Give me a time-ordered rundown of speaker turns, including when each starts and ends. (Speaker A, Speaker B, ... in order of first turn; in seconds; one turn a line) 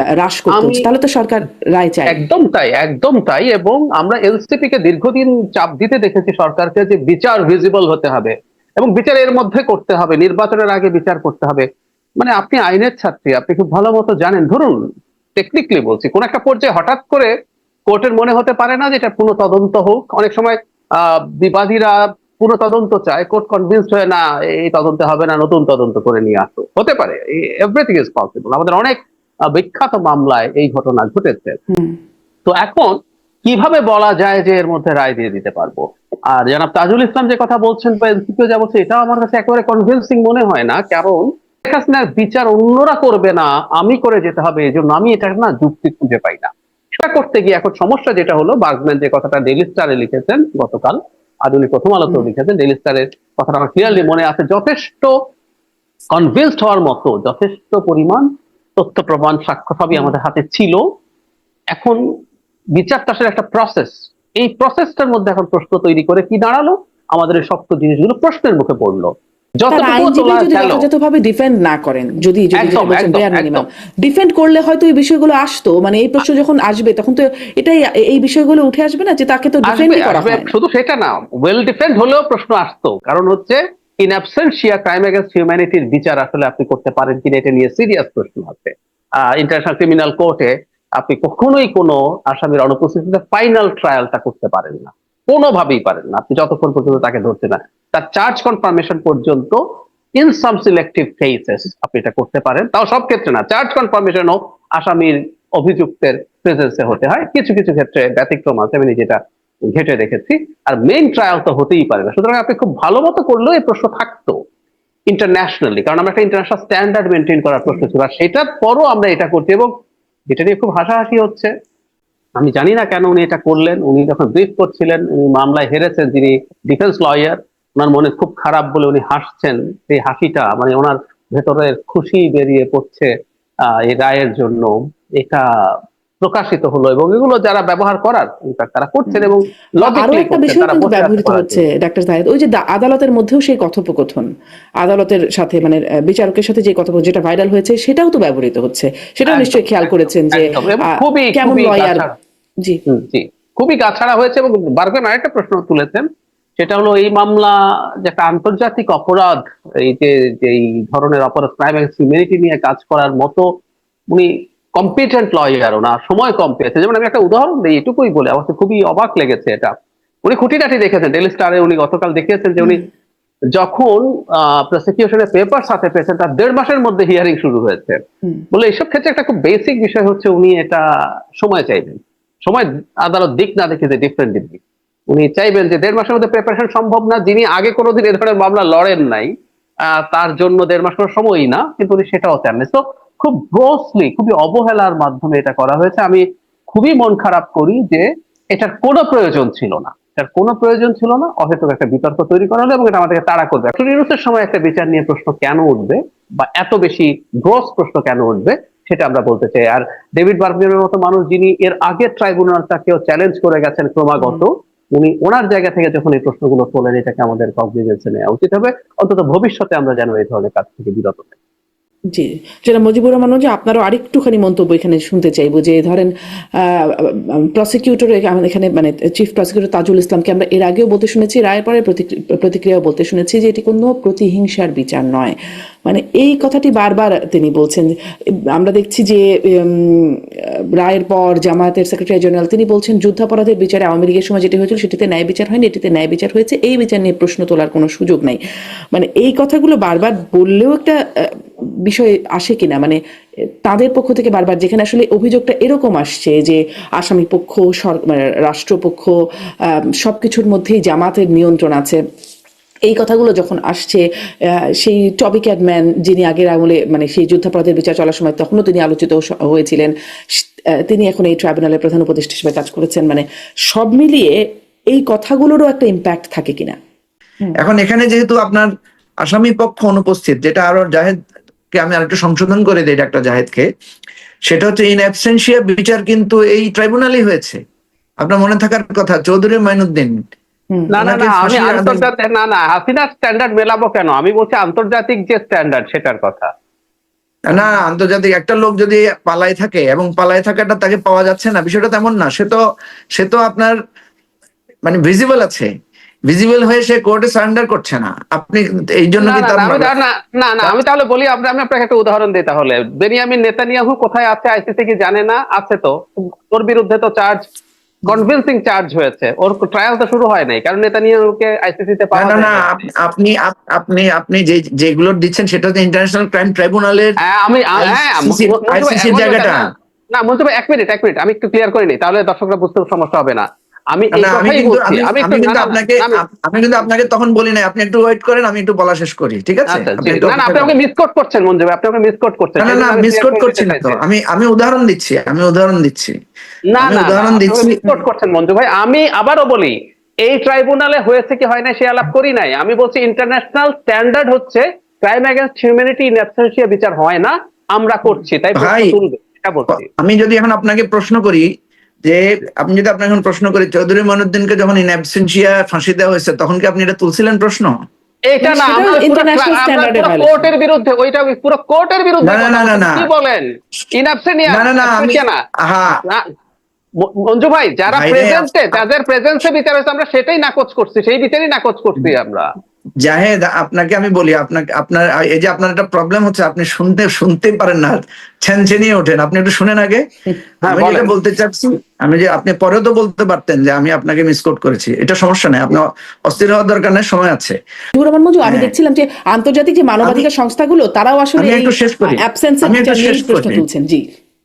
Speaker A: 0.2-2.2
Speaker B: 0.5-0.9
Speaker B: 2.1-11.7
Speaker B: 12.2-14.8
Speaker B: 15.4-17.3
Speaker B: 17.9-29.0
Speaker B: 29.5-31.6
Speaker B: 32.5-55.1
Speaker B: 56.1-60.8
Speaker B: 61.7-62.0
Speaker B: 62.8-70.8
Speaker A: 69.7-80.5
Speaker B: 72.6-73.7
Speaker B: 79.7-99.6
Speaker B: 100.2-114.3
Speaker B: 115.1-119.7
Speaker B: 120.3-121.5
Speaker B: 122.4-133.1
Speaker B: 133.7-135.4
Speaker B: 136.2-141.6
Speaker A: 139.1-144.3
Speaker A: 144.8-152.1
Speaker B: 149.3-152.2
Speaker B: 152.9-156.1
Speaker B: 156.6-163.5
Speaker B: 164.1-169.7
Speaker B: 170.2-172.8
Speaker B: 173.5-178.0
Speaker B: 178.5-180.8
Speaker B: 181.4-189.3
Speaker B: 189.9-221.3
Speaker A: 222.1-226.1
Speaker A: 226.6-237.9
Speaker A: 238.6-248.4
Speaker A: 248.9-253.0
Speaker A: 253.6-259.1
Speaker A: 260.0-262.0
Speaker A: 262.9-264.0
Speaker A: 264.8-270.4
Speaker A: 270.9-274.4
Speaker A: 274.9-276.8
Speaker C: 277.6-278.7
Speaker C: 279.2-281.1
Speaker C: 281.7-283.7
Speaker C: 284.5-287.6
Speaker C: 288.2-290.1
Speaker B: 290.9-296.5
Speaker C: 291.0-292.0
Speaker C: 297.5-302.6
Speaker C: 303.1-303.8
Speaker C: 304.9-305.7
Speaker C: 306.3-309.9
Speaker B: 309.2-315.9
Speaker B: 316.5-317.4
Speaker B: 318.1-322.6
Speaker C: 322.1-327.1
Speaker B: 327.2-336.2
Speaker C: 327.8-329.6
Speaker C: 334.1-340.7
Speaker B: 339.7-344.0
Speaker C: 342.6-346.1
Speaker B: 346.7-359.9
Speaker C: 346.8-347.8
Speaker C: 358.6-359.0
Speaker C: 359.7-361.5
Speaker C: 362.0-367.8
Speaker B: 368.3-375.4
Speaker A: 368.4-370.5
Speaker C: 372.2-373.1
Speaker C: 374.5-376.0
Speaker B: 377.0-382.5
Speaker C: 377.9-378.8
Speaker C: 383.0-390.0
Speaker B: 390.6-391.1
Speaker C: 390.7-397.6
Speaker A: 397.9-404.0
Speaker C: 398.4-398.7
Speaker C: 401.4-403.6